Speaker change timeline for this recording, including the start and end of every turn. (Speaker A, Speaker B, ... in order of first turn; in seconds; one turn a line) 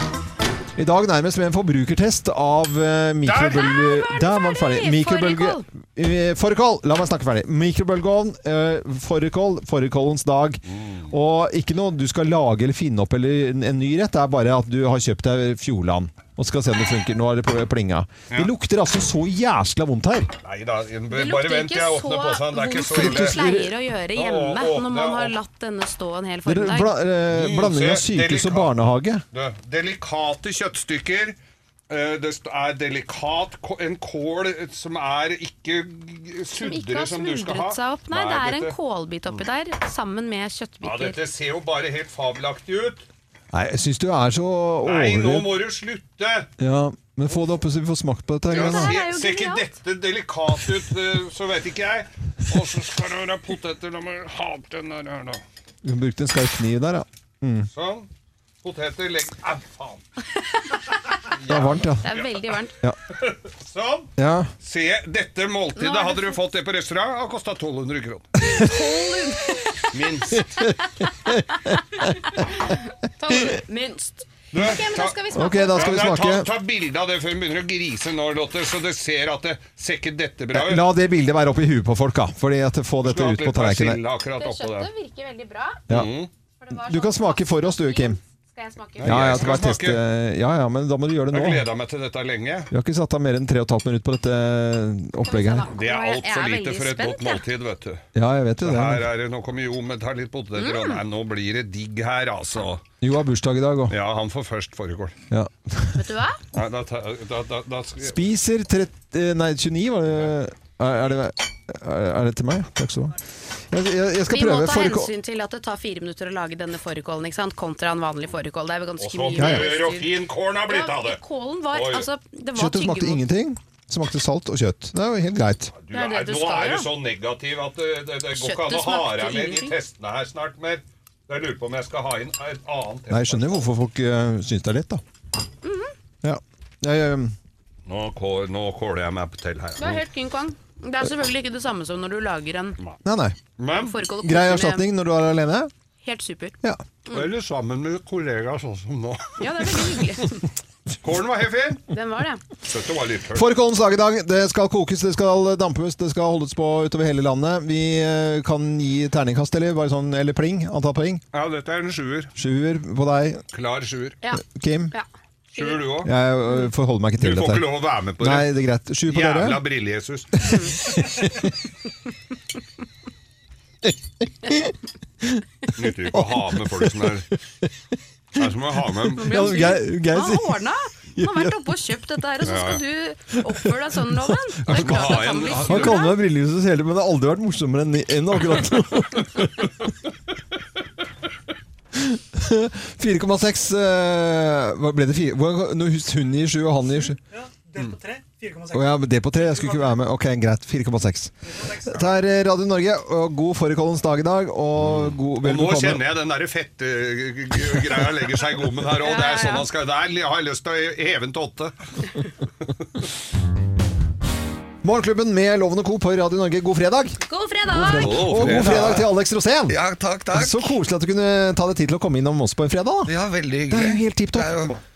Speaker A: 0.8-20.3
Speaker B: 3.3-3.6
Speaker C: 3.3-5.6
Speaker B: 10.7-11.1
Speaker B: 20.4-23.4
Speaker C: 21.1-26.9
Speaker A: 22.9-23.7
Speaker B: 24.2-25.3
Speaker A: 26.5-29.2
Speaker B: 27.3-28.7
Speaker B: 29.3-31.4
Speaker B: 31.9-38.8
Speaker C: 36.6-41.2
Speaker B: 40.8-43.0
Speaker A: 43.5-45.5
Speaker B: 44.8-46.5
Speaker A: 46.6-48.9
Speaker C: 48.5-49.7
Speaker B: 48.5-55.4
Speaker A: 55.8-57.7
Speaker B: 57.7-58.1
Speaker B: 58.6-60.0
Speaker B: 61.4-62.3
Speaker A: 61.5-62.1
Speaker C: 62.0-62.7
Speaker B: 63.2-64.1
Speaker A: 64.2-64.5
Speaker B: 64.6-68.4
Speaker C: 65.8-66.4
Speaker C: 68.5-69.9
Speaker B: 69.9-70.5
Speaker A: 70.4-70.7
Speaker A: 71.2-71.6
Speaker C: 71.7-76.0
Speaker B: 74.5-75.2
Speaker A: 75.3-76.5
Speaker B: 75.7-80.8
Speaker A: 80.5-84.0
Speaker B: 83.0-84.9
Speaker C: 84.4-85.8
Speaker B: 85.9-86.3
Speaker C: 86.6-89.5
Speaker A: 86.8-88.2
Speaker B: 89.0-90.0
Speaker A: 89.0-91.7
Speaker B: 91.3-92.7
Speaker A: 92.7-95.7
Speaker C: 95.2-97.4
Speaker B: 95.7-98.0
Speaker A: 98.2-99.1
Speaker B: 98.6-102.8
Speaker C: 100.6-101.0
Speaker A: 103.0-104.0
Speaker B: 103.9-105.2
Speaker A: 105.3-106.0
Speaker C: 106.0-106.4
Speaker B: 106.5-108.2
Speaker A: 108.0-113.2
Speaker A: 113.7-115.1
Speaker C: 114.3-120.1
Speaker B: 119.0-121.2
Speaker A: 119.4-119.7
Speaker C: 120.7-123.2
Speaker B: 121.7-122.1
Speaker A: 122.5-125.7
Speaker B: 125.8-133.7
Speaker C: 125.9-126.9
Speaker C: 128.3-129.7
Speaker A: 133.1-135.0
Speaker C: 135.6-135.9
Speaker A: 136.2-137.3
Speaker B: 137.9-140.0
Speaker C: 139.8-142.8
Speaker A: 143.0-143.4
Speaker B: 143.6-143.9
Speaker C: 143.8-144.9
Speaker A: 144.2-145.7
Speaker C: 146.0-146.6
Speaker B: 147.1-149.9
Speaker C: 149.4-150.4
Speaker B: 151.0-151.8
Speaker C: 151.9-152.4
Speaker B: 152.7-153.5
Speaker A: 153.3-161.2
Speaker B: 161.3-162.3
Speaker A: 162.3-163.4
Speaker B: 163.5-164.2
Speaker C: 164.2-165.8
Speaker A: 164.4-164.9
Speaker B: 165.6-166.1
Speaker A: 166.0-167.7
Speaker B: 167.2-168.5
Speaker A: 168.2-169.6
Speaker B: 169.1-170.4
Speaker C: 170.4-170.7
Speaker A: 170.5-171.5
Speaker A: 173.8-175.4
Speaker B: 175.8-177.3
Speaker A: 176.1-177.7
Speaker B: 178.4-179.4
Speaker A: 179.1-180.6
Speaker C: 179.2-186.2
Speaker A: 181.2-181.6
Speaker B: 182.4-182.8
Speaker A: 183.6-189.7
Speaker B: 184.7-186.0
Speaker A: 191.9-197.2
Speaker A: 198.6-206.1
Speaker B: 204.8-211.8
Speaker C: 209.0-209.7
Speaker A: 214.8-219.8
Speaker C: 217.3-218.2
Speaker B: 218.0-219.1
Speaker D: 218.5-219.0
Speaker D: 219.7-220.7
Speaker A: 220.3-223.1
Speaker D: 223.1-224.8
Speaker A: 223.7-224.7